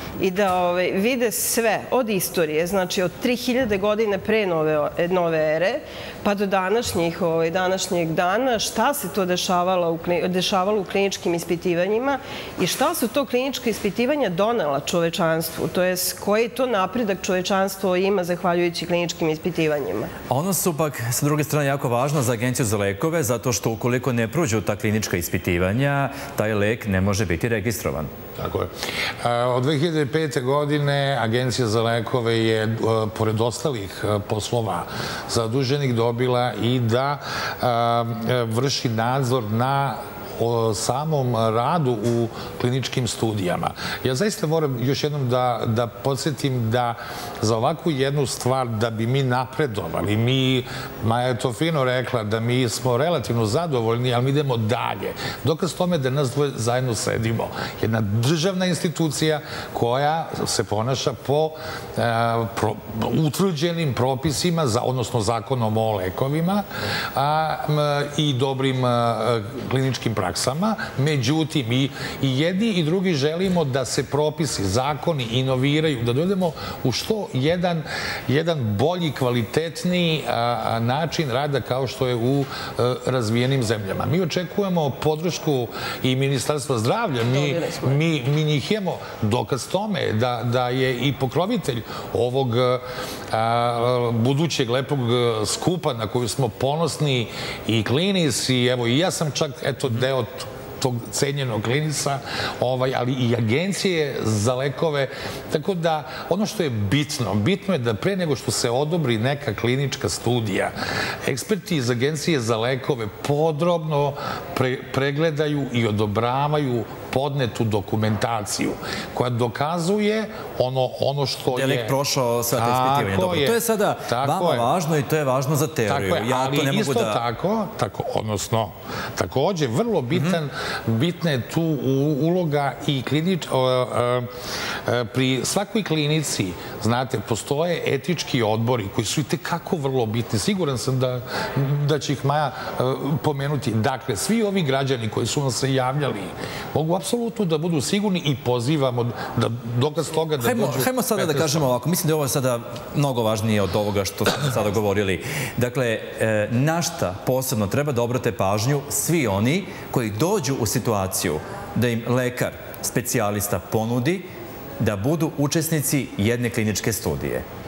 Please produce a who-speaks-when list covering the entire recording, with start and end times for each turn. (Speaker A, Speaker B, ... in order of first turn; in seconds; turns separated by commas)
Speaker A: 0.2-20.1, Speaker B: 20.3-28.1, Speaker C: 28.4-121.9, Speaker A: 87.3-88.0, Speaker B: 121.5-127.2, Speaker C: 122.5-124.7, Speaker C: 125.9-134.3, Speaker C: 134.8-151.7, Speaker B: 150.4-164.3, Speaker B: 164.8-167.4